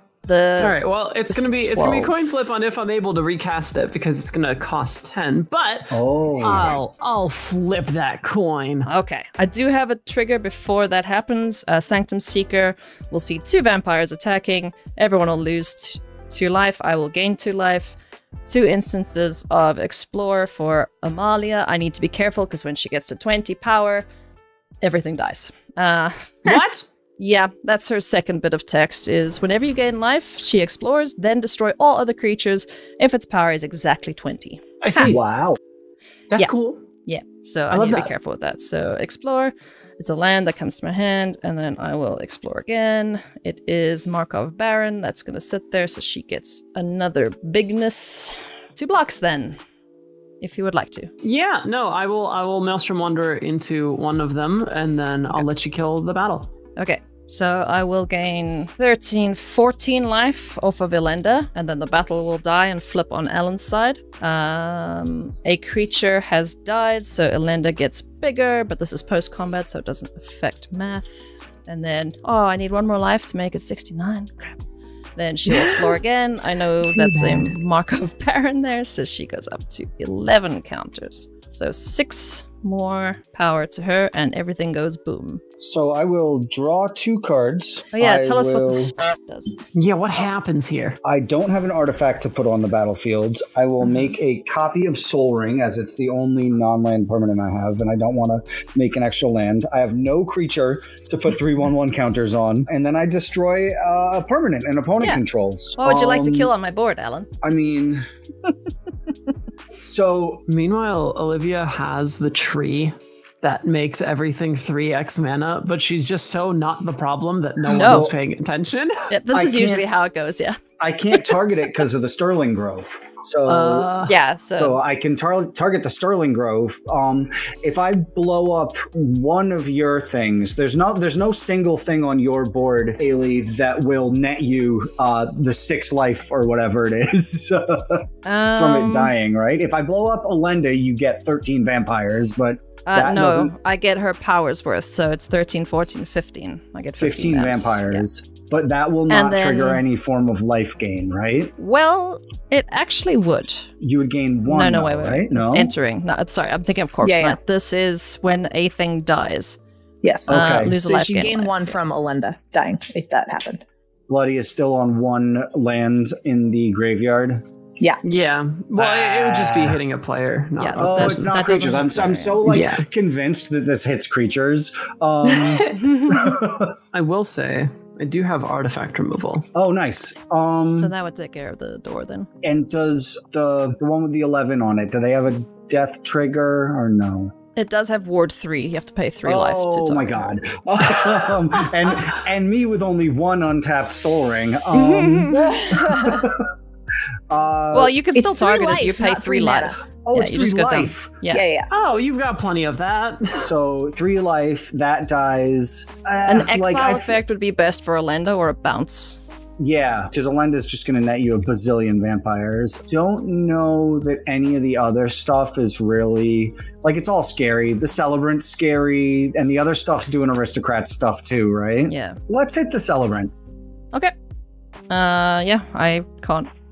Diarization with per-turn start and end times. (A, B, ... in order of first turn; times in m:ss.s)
0:00.2-0:00.8 A
0:00.6-0:08.9 B
0:01.3-0:02.3 A
0:05.9-0:06.7 C
0:08.8-0:24.0 A
0:24.8-0:26.6 A
0:26.4-0:26.8 B
0:27.2-0:35.0 A
0:34.8-0:35.2 B
0:35.0-0:35.6 C
0:36.3-0:36.8 B
0:37.1-0:49.6 A
0:37.7-0:38.1 B
0:50.4-0:51.1 A
0:51.2-0:56.5 B
0:56.8-1:14.6 A
1:15.2-1:25.4 A
1:16.8-1:17.6 D
1:25.6-1:28.9 C
1:27.9-1:29.6 A
1:29.7-1:31.0 B
1:31.0-1:46.5 C
1:45.8-1:47.3 A
1:47.4-1:48.0 C
1:49.8-1:50.4 C
1:50.5-1:59.1 B
1:57.6-1:58.1 C
1:57.7-1:58.1 A
1:59.1-2:00.6 A
1:59.3-1:59.9 C
2:00.8-2:04.0 C
2:03.4-2:04.1 B
2:04.0-2:04.8 A
2:04.5-2:23.5 C
2:18.2-2:19.1 A
2:22.9-2:28.0 A
2:27.0-2:31.5 C
2:29.1-2:29.8 A
2:31.6-2:33.7 A
2:33.8-2:35.7 C
2:34.4-2:39.6 A
2:37.0-2:37.4 D
2:40.0-2:43.6 D
2:40.3-2:40.8 C
2:40.3-2:41.6 A
2:44.1-2:47.4 C
2:48.0-2:51.4 B
2:48.8-2:49.8 C
2:50.6-2:52.5 A
2:50.8-2:56.8 C
2:52.4-2:52.8 B
2:55.3-2:55.8 B
2:56.9-2:59.4 B
2:59.5-3:00.9 C
3:00.8-3:02.3 A
3:02.4-3:07.3 C
3:07.6-3:10.3 A
3:09.2-3:16.5 C
3:14.7-3:15.5 A
3:15.7-3:16.2 D
3:17.3-3:18.0 C
3:17.7-3:21.4 A
3:18.1-3:19.8 D
3:20.0-3:21.1 C
3:21.3-3:21.7 D
3:21.7-3:23.5 B
3:23.4-3:27.2 C
3:26.2-3:29.2 A
3:29.6-3:43.3 C
3:41.9-3:42.2 A
3:44.9-3:46.5 A